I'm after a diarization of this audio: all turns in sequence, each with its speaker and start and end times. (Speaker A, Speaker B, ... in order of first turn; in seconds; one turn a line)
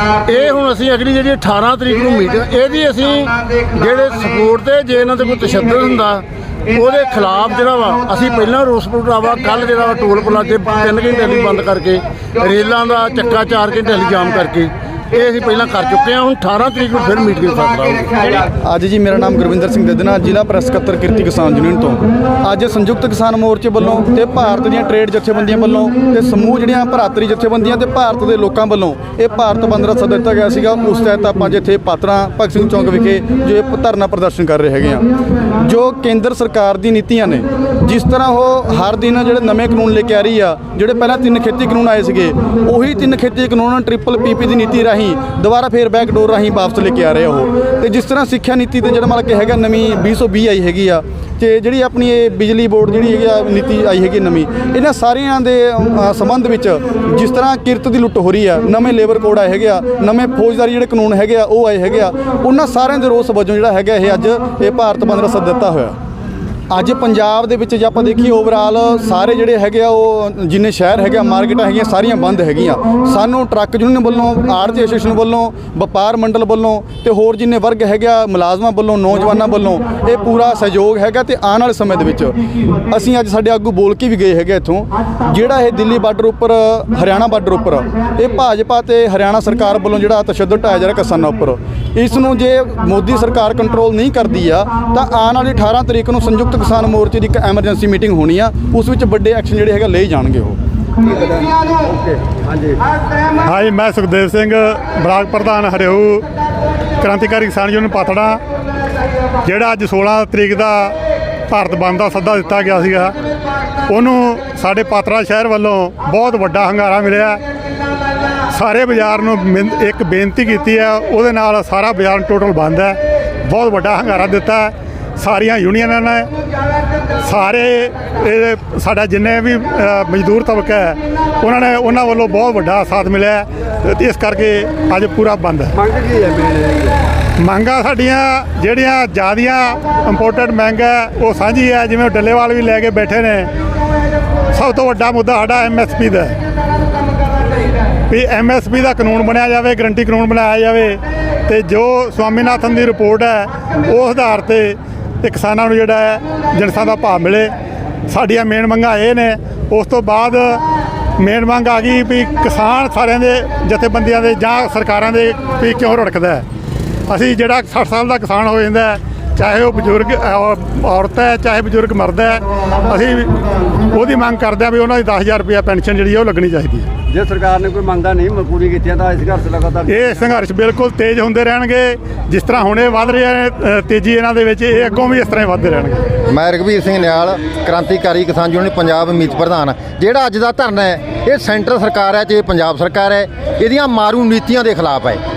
Speaker A: 0.2-18.3
Speaker B: 18.6-66.0
Speaker B: 66.7-100.6
Speaker C: 103.4-106.2
Speaker C: 107.0-108.4
Speaker C: 109.4-111.0
Speaker C: 111.5-113.2
Speaker C: 113.9-117.4
Speaker C: 118.5-126.3
Speaker C: 127.2-135.8
Speaker D: 135.9-136.9
Speaker C: 137.4-143.5
Speaker C: 144.5-146.3
Speaker C: 148.1-157.5
Speaker C: 158.1-160.6
Speaker C: 161.2-166.4
Speaker C: 167.1-176.9
Speaker D: 177.1-179.7
Speaker C: 179.8-186.1
Speaker E: 186.3-195.2